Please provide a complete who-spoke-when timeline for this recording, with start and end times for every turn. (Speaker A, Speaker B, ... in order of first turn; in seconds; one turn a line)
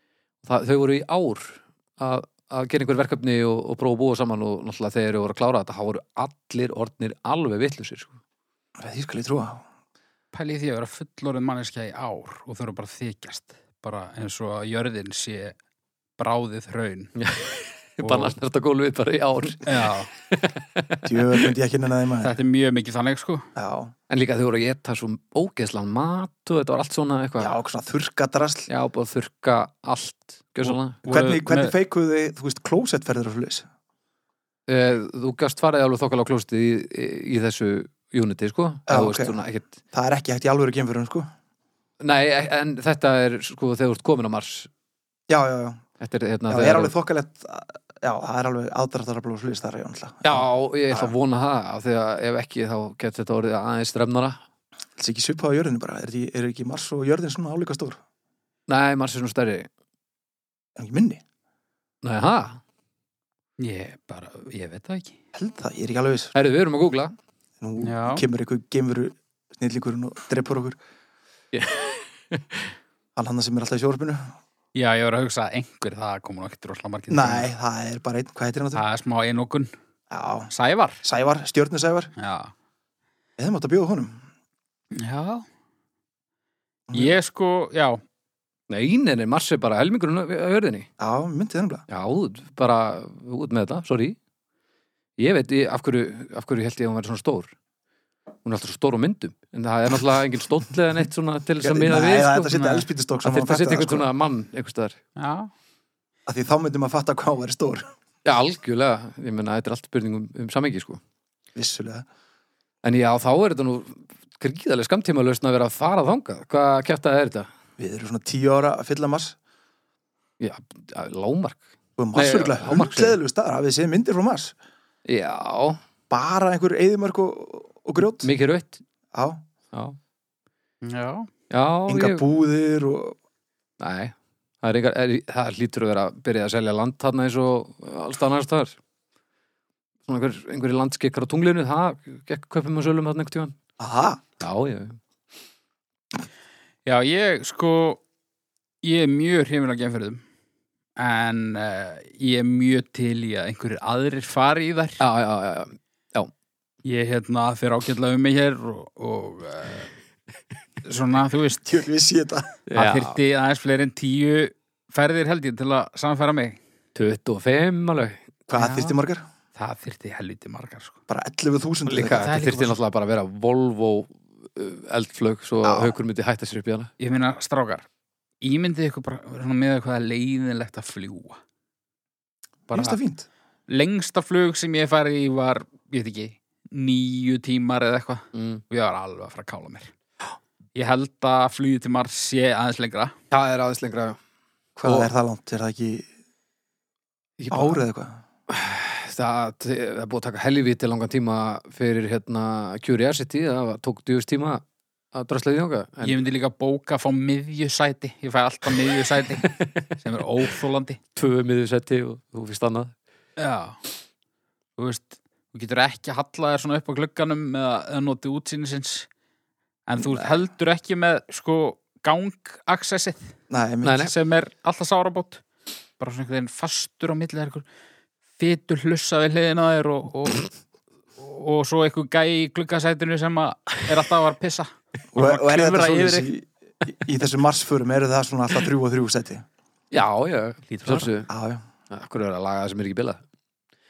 Speaker A: 0.4-8.1
Speaker B: 8.8-9.6
Speaker C: 10.3-15.6
Speaker C: 16.2-17.1
Speaker A: 17.1-21.5
Speaker C: 18.0-18.3
Speaker C: 19.6-20.1
Speaker B: 21.1-22.4
Speaker C: 22.2-23.5
Speaker B: 23.6-23.9
Speaker A: 24.1-27.5
Speaker B: 27.4-28.7
Speaker A: 28.7-31.0
Speaker C: 30.6-31.7
Speaker B: 31.1-33.7
Speaker A: 34.7-39.7
Speaker B: 38.9-39.4
Speaker B: 39.9-41.3
Speaker A: 42.0-44.7
Speaker B: 45.3-45.8
Speaker A: 46.0-46.9
Speaker B: 46.5-51.1
Speaker A: 50.2-54.4
Speaker B: 55.0-58.0
Speaker A: 58.7-59.7
Speaker B: 60.8-61.2
Speaker A: 62.0-62.6
Speaker C: 63.6-65.2
Speaker B: 65.3-66.3
Speaker A: 66.3-67.1
Speaker B: 67.6-70.8
Speaker C: 67.8-68.2
Speaker A: 71.5-72.7
Speaker B: 73.2-74.3
Speaker C: 74.8-77.5
Speaker B: 77.1-78.8
Speaker C: 78.8-79.7
Speaker B: 80.1-80.5
Speaker C: 80.5-81.0
Speaker B: 81.0-82.1
Speaker C: 82.2-82.5
Speaker B: 83.4-84.2
Speaker C: 85.0-85.5
Speaker B: 86.9-87.2
Speaker C: 86.9-88.0
Speaker A: 88.7-90.9
Speaker B: 91.0-91.8
Speaker A: 91.9-94.2
Speaker A: 95.2-97.5
Speaker A: 98.4-102.7
Speaker B: 101.6-104.1
Speaker A: 103.2-105.0
Speaker C: 105.2-105.5
Speaker B: 106.3-107.9
Speaker A: 108.2-111.0
Speaker B: 111.5-112.1
Speaker A: 112.8-117.5
Speaker B: 117.8-119.4
Speaker A: 120.4-121.6
Speaker B: 122.0-124.5
Speaker A: 122.1-123.2
Speaker A: 125.1-125.8
Speaker B: 126.1-128.3
Speaker A: 128.2-128.8
Speaker B: 129.1-129.4
Speaker C: 130.8-131.3
Speaker A: 131.5-132.2
Speaker B: 131.9-133.2
Speaker A: 133.8-138.8
Speaker A: 140.1-143.6
Speaker B: 143.8-144.2
Speaker A: 144.4-145.0
Speaker C: 146.9-148.0
Speaker C: 148.8-150.2
Speaker C: 151.0-155.0
Speaker A: 155.0-156.3
Speaker C: 156.8-159.9
Speaker C: 160.8-161.8
Speaker B: 161.6-162.5
Speaker A: 162.7-163.2
Speaker C: 162.8-166.6
Speaker A: 166.9-168.2
Speaker B: 168.5-169.2
Speaker C: 168.6-169.0
Speaker C: 169.6-171.0
Speaker B: 171.1-172.3
Speaker A: 171.9-176.9
Speaker C: 172.0-172.8
Speaker B: 175.6-175.9
Speaker C: 177.0-177.8
Speaker C: 178.4-181.4
Speaker C: 182.7-183.0
Speaker B: 182.7-183.3
Speaker C: 183.7-189.9
Speaker A: 188.3-188.6
Speaker C: 190.8-193.1
Speaker A: 193.3-194.2
Speaker B: 194.8-196.1
Speaker A: 194.8-195.1
Speaker A: 197.4-197.8
Speaker B: 197.5-198.2
Speaker A: 198.5-204.6
Speaker A: 205.1-206.2
Speaker C: 206.0-211.0
Speaker A: 209.5-209.9
Speaker A: 211.1-212.9
Speaker C: 213.4-213.8
Speaker C: 214.8-219.1
Speaker C: 219.9-223.3
Speaker B: 220.0-220.3
Speaker B: 223.5-224.0
Speaker A: 223.8-224.1
Speaker C: 224.0-225.4
Speaker C: 226.0-227.6
Speaker C: 228.4-230.5
Speaker C: 231.2-236.3
Speaker B: 235.1-239.4
Speaker A: 239.9-241.3
Speaker C: 240.7-241.1
Speaker B: 241.3-241.6
Speaker A: 241.9-243.2